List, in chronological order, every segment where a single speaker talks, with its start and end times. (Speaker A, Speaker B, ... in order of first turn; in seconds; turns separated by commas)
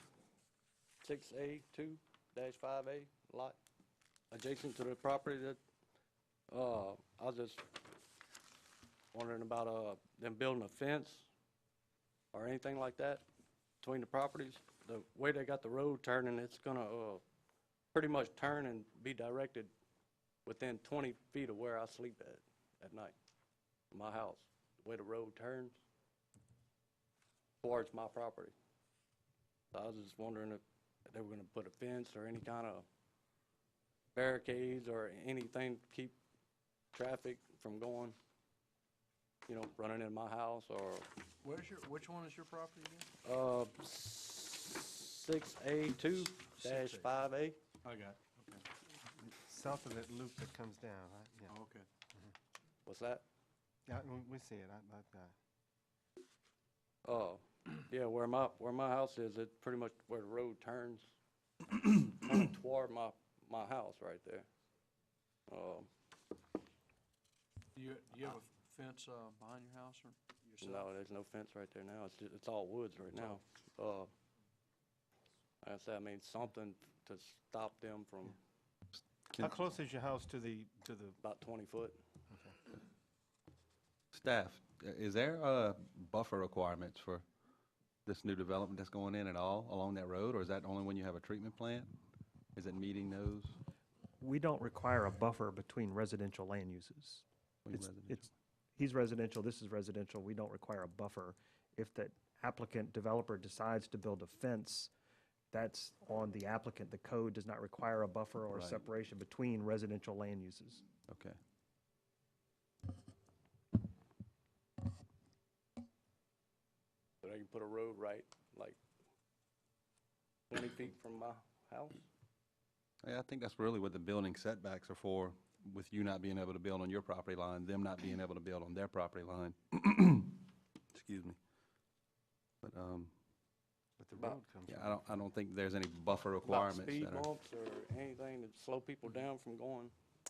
Speaker A: 1.0-3.6, Speaker A: 4.3-5.6, Speaker A: 6.5-7.6, Speaker A: 9.1-11.3, Speaker A: 12.3-13.2, Speaker A: 13.8-17.2, Speaker A: 17.9-19.7, Speaker A: 20.4-23.1, Speaker A: 23.9-25.8, Speaker A: 27.6-28.5, Speaker A: 29.7-32.9, Speaker A: 34.1-36.2, Speaker A: 36.9-38.2, Speaker A: 39.5-41.1, Speaker B: 41.4-43.1, Speaker A: 43.2-47.6, Speaker B: 46.4-47.1, Speaker B: 47.8-48.7, Speaker C: 49.2-51.5, Speaker B: 51.5-51.9, Speaker A: 52.9-53.2, Speaker C: 53.9-55.3, Speaker A: 57.0-61.1, Speaker A: 61.9-64.5, Speaker A: 65.5-65.9, Speaker B: 67.7-70.9, Speaker A: 70.6-74.1, Speaker A: 75.6-78.4, Speaker C: 79.4-81.2, Speaker A: 81.2-82.0, Speaker C: 82.3-82.5, Speaker D: 84.1-87.2, Speaker D: 88.0-91.9, Speaker D: 92.5-93.5, Speaker E: 94.2-104.9, Speaker D: 97.6-98.3, Speaker E: 105.5-110.8, Speaker D: 108.5-108.8, Speaker D: 111.1-111.4, Speaker A: 117.2-118.8, Speaker A: 120.5-122.0, Speaker D: 123.0-131.4, Speaker D: 132.6-133.1, Speaker C: 134.0-135.0, Speaker D: 134.7-137.3, Speaker A: 136.4-139.9